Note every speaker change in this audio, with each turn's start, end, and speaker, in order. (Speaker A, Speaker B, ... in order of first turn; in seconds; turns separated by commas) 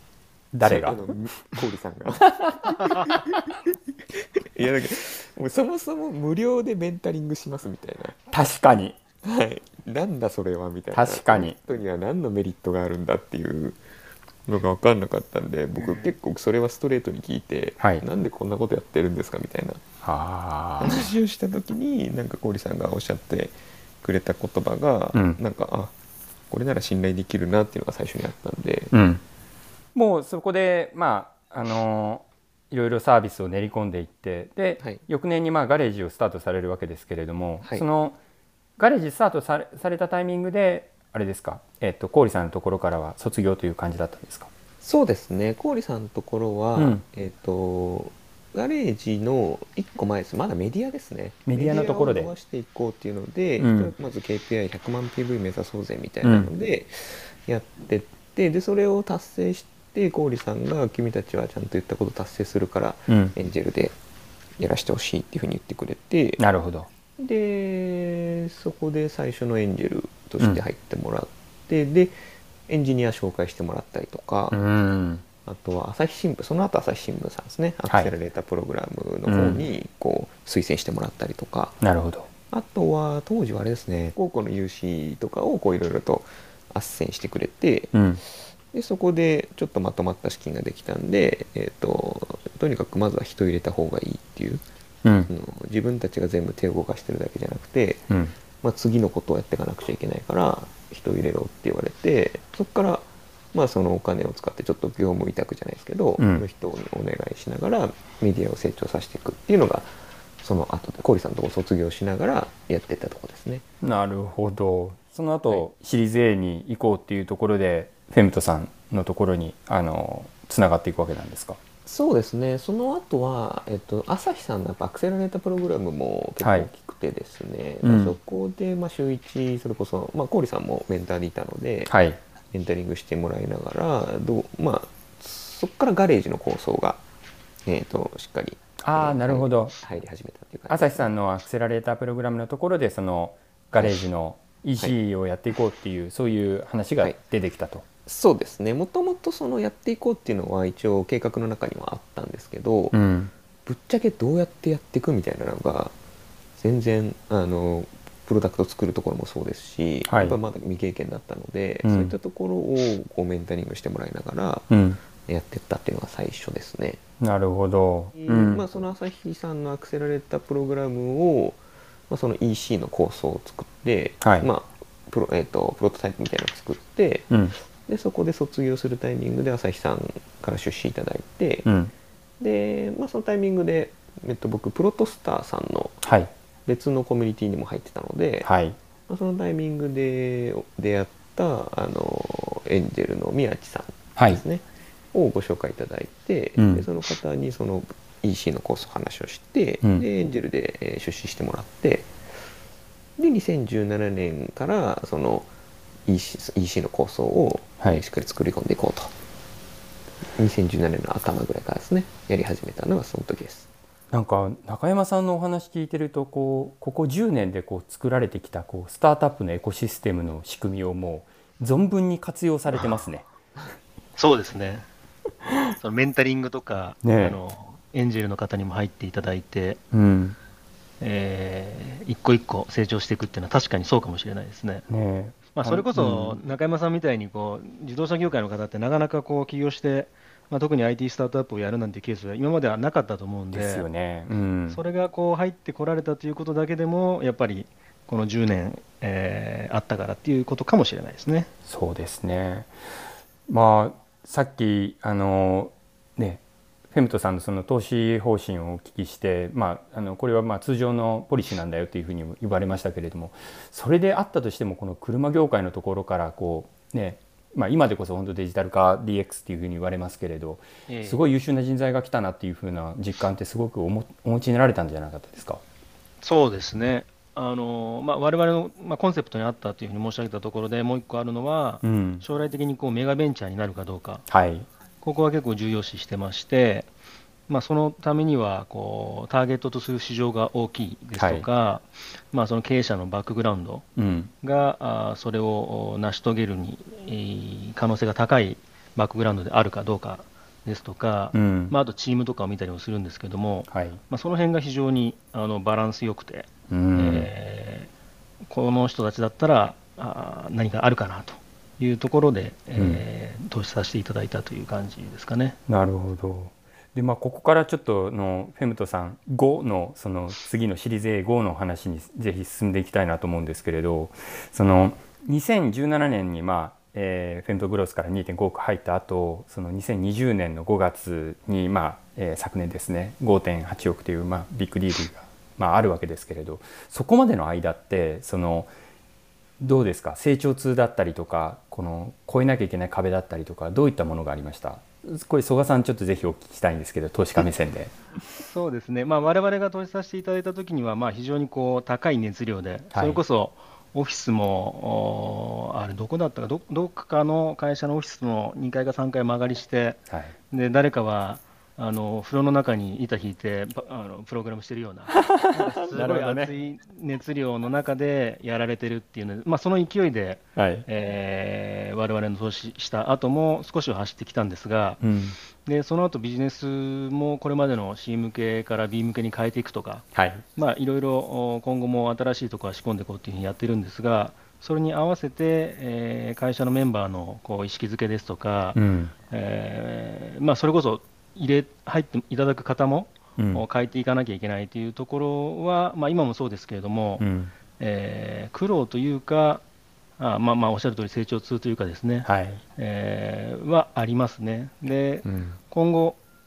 Speaker A: 0.5-1.0, Speaker B: 0.6-3.5, Speaker A: 2.2-3.2, Speaker B: 4.1-8.2, Speaker A: 8.3-9.0, Speaker B: 9.2-13.8, Speaker A: 10.9-11.6, Speaker B: 14.4-19.8, Speaker A: 17.8-18.0, Speaker A: 20.0-21.1, Speaker B: 20.8-25.9, Speaker A: 25.1-25.4, Speaker B: 26.5-28.9, Speaker A: 28.9-29.2, Speaker A: 29.9-38.2, Speaker A: 38.8-44.5, Speaker B: 44.8-64.0, Speaker A: 46.8-47.0, Speaker A: 51.5-52.3, Speaker A: 53.6-53.9, Speaker A: 56.2-56.5, Speaker A: 63.1-63.3, Speaker B: 64.6-66.4, Speaker A: 66.4-66.9, Speaker B: 67.2-72.2, Speaker B: 72.7-74.6, Speaker A: 74.5-75.2, Speaker B: 75.4-81.8, Speaker A: 79.3-79.7, Speaker A: 81.8-82.3, Speaker B: 82.5-87.9, Speaker A: 87.9-88.2, Speaker B: 88.7-94.6, Speaker A: 95.0-95.3, Speaker B: 95.3-98.0, Speaker B: 98.6-113.6, Speaker A: 106.2-106.4, Speaker A: 113.8-121.6, Speaker B: 121.8-131.9, Speaker A: 126.4-126.7, Speaker A: 127.8-128.2, Speaker A: 131.9-132.2, Speaker B: 132.5-137.0, Speaker B: 137.7-141.1, Speaker A: 138.8-139.7, Speaker A: 140.7-147.8, Speaker B: 143.8-144.1, Speaker B: 148.1-152.9, Speaker A: 152.9-153.3, Speaker B: 153.7-155.9, Speaker B: 156.6-164.7, Speaker A: 160.1-160.4, Speaker A: 161.8-162.1, Speaker A: 164.7-165.0, Speaker B: 165.2-167.0, Speaker A: 167.2-168.6, Speaker B: 168.2-177.3, Speaker A: 174.2-174.5, Speaker A: 177.3-177.5, Speaker B: 177.8-181.7, Speaker A: 181.7-181.9, Speaker B: 182.4-186.0, Speaker A: 186.0-186.3, Speaker B: 186.7-188.5, Speaker A: 188.4-188.8, Speaker B: 189.1-202.1, Speaker A: 194.2-194.4, Speaker A: 196.6-196.8, Speaker B: 203.2-205.5, Speaker B: 206.1-209.1, Speaker B: 210.3-213.7, Speaker A: 214.1-223.3, Speaker C: 224.2-224.8, Speaker C: 225.8-229.8, Speaker A: 227.0-227.4, Speaker A: 229.9-230.4, Speaker C: 231.0-234.8, Speaker A: 234.9-236.4, Speaker C: 235.5-243.8, Speaker A: 243.5-244.8, Speaker C: 244.7-251.5, Speaker A: 251.7-252.7, Speaker A: 253.5-275.6, Speaker C: 270.9-271.2, Speaker C: 276.2-284.2, Speaker A: 281.8-282.2, Speaker A: 284.3-284.7, Speaker C: 285.0-286.9, Speaker C: 287.5-293.9, Speaker A: 291.2-291.5, Speaker A: 293.9-294.3, Speaker C: 294.4-307.9, Speaker A: 301.3-301.7, Speaker A: 303.7-304.0, Speaker A: 306.7-307.3, Speaker C: 308.5-315.6, Speaker A: 312.8-313.0, Speaker A: 315.7-338.7, Speaker A: 339.6-348.0, Speaker C: 348.5-360.0, Speaker A: 352.9-353.2, Speaker A: 360.1-360.4, Speaker C: 360.5-375.0, Speaker A: 365.1-366.5, Speaker A: 370.6-370.9, Speaker A: 375.0-375.4, Speaker C: 375.6-388.8, Speaker A: 380.1-380.4, Speaker A: 388.7-389.1, Speaker C: 389.3-397.2, Speaker A: 393.4-393.6, Speaker A: 397.2-397.5, Speaker C: 397.8-399.6, Speaker C: 400.2-406.2, Speaker A: 402.2-402.6, Speaker A: 405.2-405.6